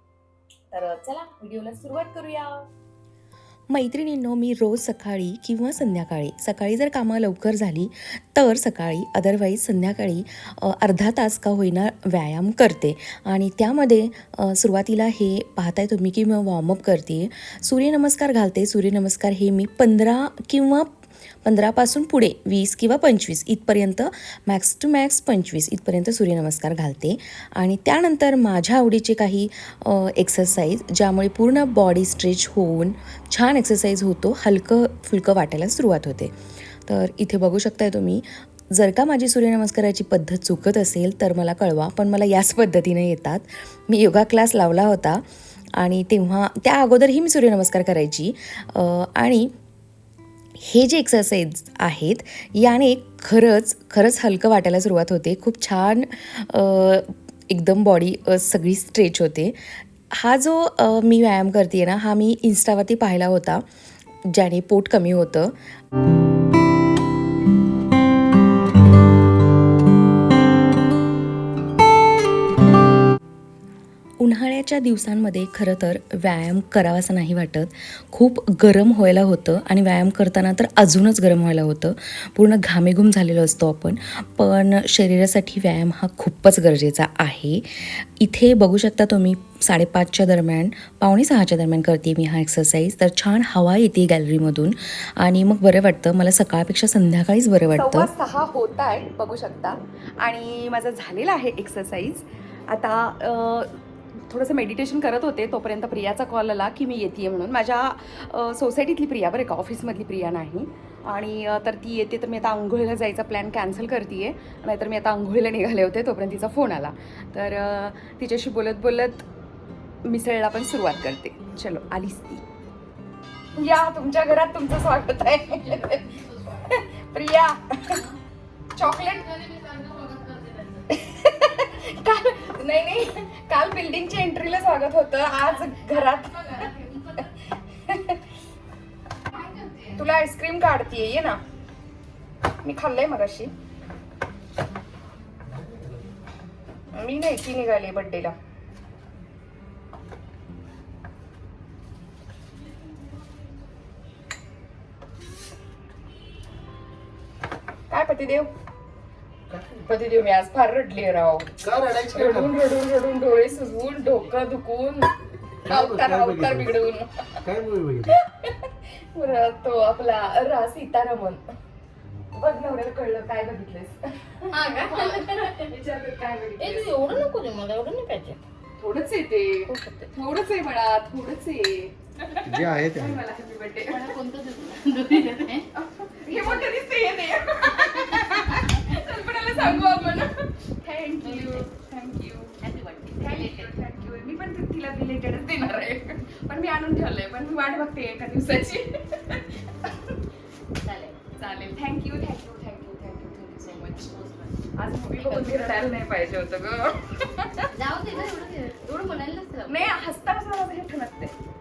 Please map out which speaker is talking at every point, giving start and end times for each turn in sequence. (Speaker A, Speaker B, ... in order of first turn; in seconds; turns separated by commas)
Speaker A: 0.7-2.7, Speaker B: 3.7-20.9, Speaker B: 21.4-36.3, Speaker B: 36.8-45.2, Speaker B: 45.8-49.5, Speaker B: 50.6-59.6, Speaker B: 60.1-63.6, Speaker B: 64.3-65.5, Speaker B: 74.2-98.1, Speaker A: 97.7-103.8, Speaker A: 104.3-119.2, Speaker A: 120.0-122.4, Speaker A: 123.5-128.0, Speaker C: 125.6-126.6, Speaker A: 128.8-129.2, Speaker C: 128.8-130.9, Speaker A: 130.9-137.3, Speaker C: 135.9-137.2, Speaker A: 137.9-138.2, Speaker C: 139.3-139.9, Speaker A: 139.9-141.4, Speaker A: 142.6-143.5, Speaker D: 145.6-145.8, Speaker A: 146.9-148.3, Speaker A: 157.9-158.5, Speaker D: 159.5-159.8, Speaker A: 159.8-161.5, Speaker D: 161.6-162.6, Speaker A: 162.1-165.1, Speaker D: 165.7-166.8, Speaker A: 165.7-167.3, Speaker D: 167.4-168.1, Speaker A: 168.1-171.5, Speaker A: 172.3-176.9, Speaker C: 174.5-175.7, Speaker C: 176.6-178.4, Speaker A: 178.8-184.1, Speaker C: 179.7-180.1, Speaker D: 182.4-183.2, Speaker C: 183.9-185.7, Speaker A: 185.7-192.6, Speaker C: 186.3-186.7, Speaker C: 187.8-188.9, Speaker C: 189.5-190.0, Speaker C: 191.2-191.7, Speaker C: 192.6-193.7, Speaker A: 193.2-199.9, Speaker C: 200.8-201.2, Speaker A: 201.4-204.1, Speaker C: 203.6-205.9, Speaker A: 204.8-208.3, Speaker C: 207.7-210.1, Speaker A: 209.7-211.3